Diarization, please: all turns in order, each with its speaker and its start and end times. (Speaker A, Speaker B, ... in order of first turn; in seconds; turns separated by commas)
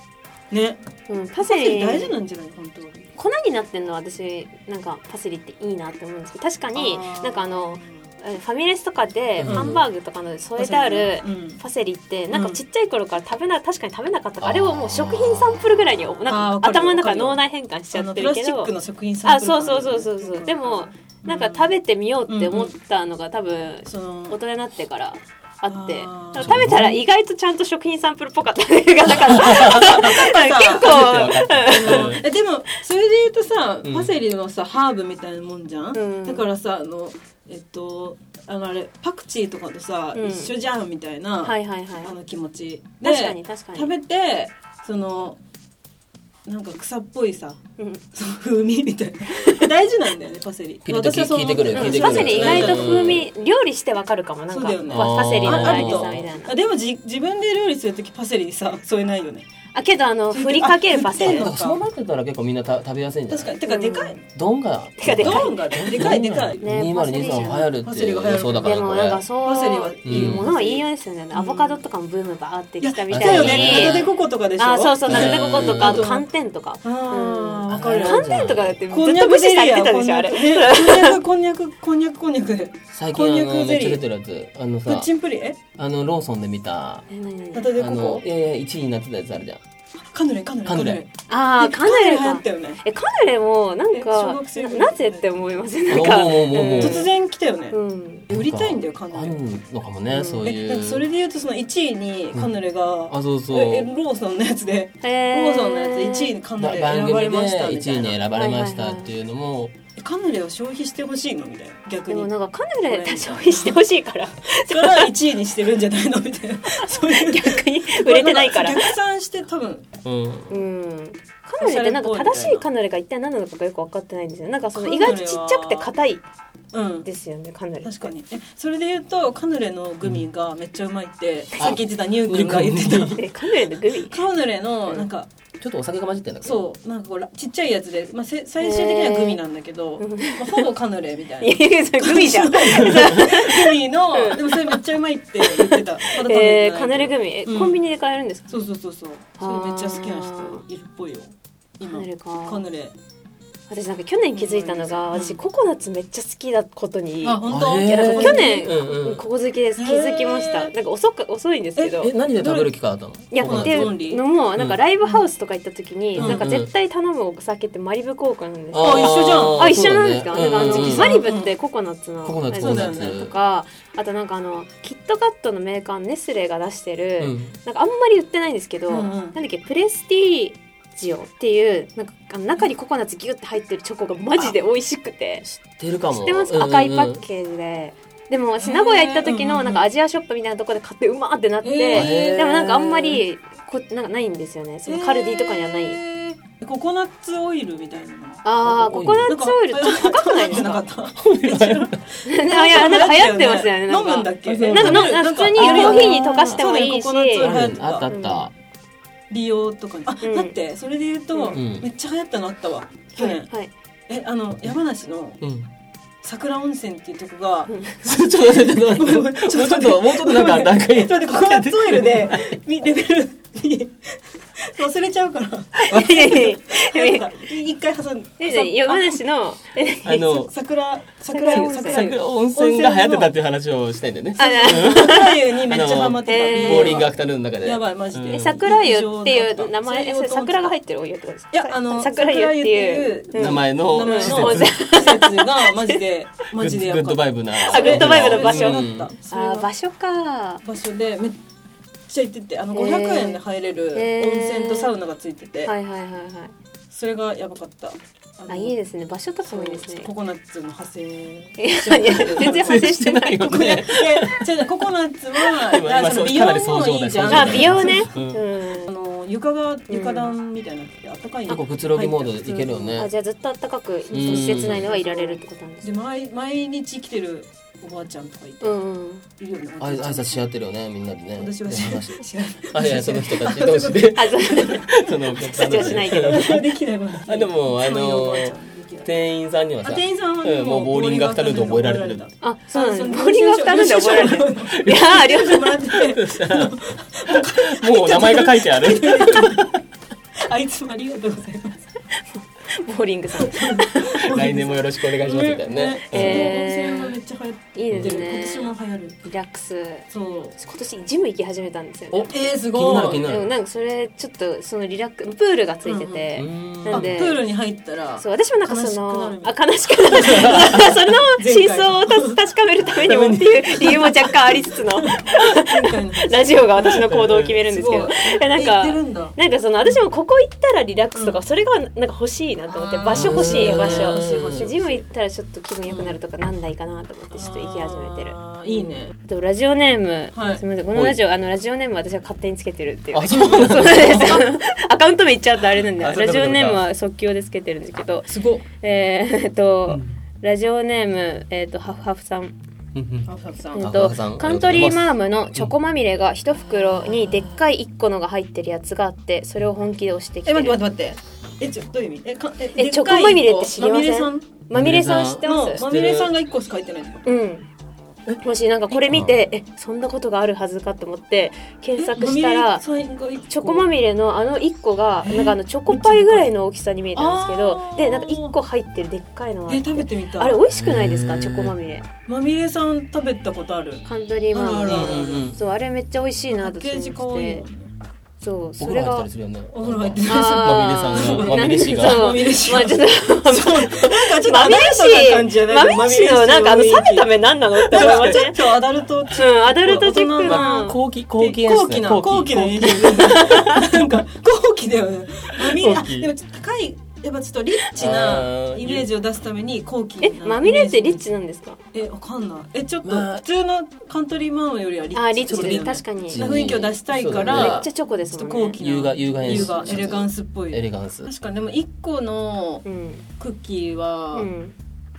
Speaker A: 0.5-0.8, Speaker B: 1.1-2.1, Speaker A: 1.4-3.1, Speaker B: 3.1-18.7, Speaker A: 6.7-8.0, Speaker C: 9.4-9.8, Speaker A: 9.5-9.7, Speaker A: 10.6-11.6, Speaker A: 12.3-12.6, Speaker C: 14.4-15.6, Speaker A: 16.3-17.4, Speaker A: 17.9-21.7, Speaker B: 19.2-32.2, Speaker A: 22.3-22.7, Speaker A: 23.9-24.4, Speaker A: 25.7-26.9, Speaker C: 26.4-27.0, Speaker C: 29.3-30.1, Speaker A: 29.5-45.4, Speaker C: 30.8-32.2, Speaker C: 33.8-34.1, Speaker B: 35.9-36.4, Speaker B: 40.1-40.5, Speaker B: 41.4-42.1, Speaker B: 43.0-43.9, Speaker A: 46.5-47.6, Speaker A: 48.1-53.2, Speaker B: 49.3-49.7, Speaker C: 50.8-53.3, Speaker B: 51.7-56.5, Speaker A: 54.5-59.5, Speaker C: 54.9-56.3, Speaker B: 59.7-61.5, Speaker A: 60.3-61.8, Speaker C: 61.2-63.5, Speaker A: 63.3-64.2, Speaker B: 63.6-64.2, Speaker C: 64.3-69.2, Speaker B: 65.0-67.7, Speaker A: 65.1-68.8, Speaker B: 68.6-74.0, Speaker A: 69.4-71.8, Speaker C: 70.0-70.5, Speaker A: 72.8-76.3, Speaker C: 73.1-74.1, Speaker B: 74.6-81.2, Speaker C: 75.0-76.1, Speaker A: 76.8-78.2, Speaker C: 77.7-78.8, Speaker A: 78.9-84.0, Speaker C: 82.9-85.1, Speaker A: 84.8-85.6, Speaker C: 85.7-87.1, Speaker B: 87.1-87.7, Speaker A: 87.5-88.2, Speaker C: 87.7-89.6, Speaker A: 90.0-92.8, Speaker C: 90.6-91.0, Speaker B: 91.3-97.1, Speaker A: 93.9-97.8, Speaker C: 95.9-97.1, Speaker B: 97.7-98.3, Speaker A: 98.3-99.4, Speaker C: 98.3-101.0, Speaker B: 100.1-100.4, Speaker A: 100.4-108.2, Speaker C: 103.1-103.9, Speaker B: 105.0-106.3, Speaker C: 106.6-109.7, Speaker B: 108.3-109.1, Speaker A: 110.0-112.3, Speaker B: 112.1-115.1, Speaker A: 112.8-113.8, Speaker A: 114.7-119.8, Speaker B: 116.8-118.9, Speaker C: 120.0-120.5, Speaker B: 120.5-126.2, Speaker A: 121.6-122.6, Speaker A: 124.7-125.9, Speaker A: 126.7-127.1, Speaker B: 127.0-128.1, Speaker A: 127.8-133.3, Speaker C: 131.6-133.2, Speaker B: 133.0-134.2, Speaker A: 134.1-135.3, Speaker C: 135.6-136.6, Speaker A: 136.4-147.8, Speaker B: 138.6-139.4, Speaker B: 140.0-140.7, Speaker B: 141.4-144.8, Speaker B: 145.4-148.5, Speaker A: 148.5-152.9, Speaker B: 149.4-150.6, Speaker B: 151.8-152.6, Speaker B: 153.7-162.1, Speaker A: 154.3-155.4, Speaker A: 157.2-158.7, Speaker C: 157.5-159.2, Speaker A: 159.8-160.7, Speaker A: 161.8-162.7, Speaker C: 162.0-163.9, Speaker B: 163.3-185.5, Speaker A: 163.3-164.2, Speaker C: 166.1-166.7, Speaker A: 166.2-166.4, Speaker C: 168.7-171.2, Speaker A: 168.8-169.8, Speaker A: 170.5-171.5, Speaker C: 172.2-173.3, Speaker A: 172.5-173.2, Speaker C: 177.2-177.5, Speaker A: 178.9-179.3, Speaker C: 185.5-187.2, Speaker B: 186.1-196.0, Speaker A: 188.6-189.9, Speaker A: 191.6-192.7, Speaker C: 191.9-193.2, Speaker A: 194.8-208.1, Speaker B: 198.4-200.8, Speaker C: 198.6-199.3, Speaker C: 201.2-201.9, Speaker B: 202.2-207.5, Speaker C: 204.5-206.6, Speaker C: 207.4-208.5, Speaker B: 208.1-208.4, Speaker A: 209.3-213.5, Speaker B: 210.2-210.6, Speaker B: 211.3-211.6, Speaker C: 211.5-211.8, Speaker B: 213.2-213.7, Speaker A: 214.1-215.4, Speaker C: 215.4-215.7, Speaker A: 216.2-229.2, Speaker B: 217.7-218.0, Speaker C: 218.0-222.6, Speaker B: 225.8-227.3, Speaker B: 228.4-230.4, Speaker C: 230.0-230.5, Speaker A: 230.2-233.3, Speaker B: 231.3-232.0, Speaker C: 231.7-238.6, Speaker B: 234.4-235.4, Speaker A: 234.4-240.7, Speaker B: 236.2-237.1, Speaker B: 238.3-246.0, Speaker A: 241.5-249.7, Speaker C: 243.3-244.7, Speaker C: 246.6-249.1, Speaker B: 247.6-250.6, Speaker A: 250.6-251.4, Speaker A: 252.1-255.7, Speaker B: 252.7-253.4, Speaker B: 253.9-254.9, Speaker B: 255.6-256.5, Speaker A: 256.9-258.8, Speaker B: 258.5-260.1, Speaker A: 259.4-262.9, Speaker B: 261.6-263.7, Speaker C: 262.4-264.5, Speaker A: 263.4-268.1, Speaker C: 265.6-268.4, Speaker B: 267.3-268.9, Speaker A: 268.8-272.5, Speaker B: 269.9-270.3, Speaker C: 271.5-273.1, Speaker B: 272.4-275.9, Speaker C: 274.1-274.9, Speaker A: 274.1-278.8, Speaker B: 278.6-279.2, Speaker A: 279.3-280.5, Speaker C: 279.8-286.6, Speaker A: 281.4-284.9, Speaker B: 284.1-286.6, Speaker A: 285.6-289.1, Speaker C: 287.3-292.2, Speaker A: 289.8-299.8, Speaker B: 292.4-295.9, Speaker C: 294.7-295.1, Speaker C: 295.9-296.8, Speaker C: 297.3-299.8, Speaker A: 300.4-301.8, Speaker B: 302.3-304.2, Speaker A: 303.4-309.2, Speaker C: 304.2-306.5, Speaker B: 306.1-307.1, Speaker B: 307.7-308.7, Speaker C: 307.9-308.2, Speaker B: 309.2-310.1, Speaker A: 310.1-310.6, Speaker B: 310.6-312.3, Speaker C: 312.1-313.5, Speaker A: 312.3-313.3, Speaker B: 313.2-317.4, Speaker A: 315.9-316.2, Speaker C: 316.3-317.2, Speaker A: 316.9-322.4, Speaker B: 318.2-352.6, Speaker C: 323.0-324.0, Speaker A: 323.9-329.4, Speaker C: 327.1-327.5, Speaker A: 331.1-331.4, Speaker A: 332.7-335.0, Speaker C: 333.1-334.7, Speaker A: 335.9-336.1, Speaker A: 337.3-339.1, Speaker A: 340.3-340.6, Speaker C: 343.1-344.4, Speaker A: 343.3-344.3, Speaker C: 346.0-346.8, Speaker A: 348.3-348.6, Speaker C: 349.9-350.1, Speaker C: 352.9-355.7, Speaker A: 353.3-353.9, Speaker B: 353.7-360.8, Speaker A: 356.9-357.4, Speaker A: 360.4-364.5, Speaker B: 362.7-365.8, Speaker C: 364.7-366.3, Speaker A: 365.4-367.2, Speaker B: 367.2-367.6, Speaker B: 368.4-372.8, Speaker A: 372.0-373.9, Speaker B: 373.5-382.1, Speaker A: 375.2-376.5, Speaker A: 377.1-378.5, Speaker A: 379.7-380.6, Speaker C: 380.7-381.8, Speaker A: 382.3-385.5, Speaker B: 384.1-387.6, Speaker C: 384.9-385.6, Speaker A: 386.6-387.9, Speaker B: 388.4-389.3, Speaker C: 388.8-392.4, Speaker A: 389.7-411.2, Speaker B: 390.2-398.7, Speaker C: 398.0-398.2, Speaker B: 399.3-401.0, Speaker C: 400.4-403.9, Speaker B: 403.0-403.8, Speaker C: 405.6-406.3, Speaker C: 407.9-409.1, Speaker B: 410.2-411.8, Speaker A: 411.9-422.9, Speaker C: 413.0-413.4, Speaker B: 415.1-416.6, Speaker C: 415.5-417.9, Speaker B: 417.4-418.8, Speaker C: 418.8-421.3, Speaker B: 419.5-419.7, Speaker B: 422.8-423.2, Speaker A: 423.4-424.5, Speaker B: 424.3-424.7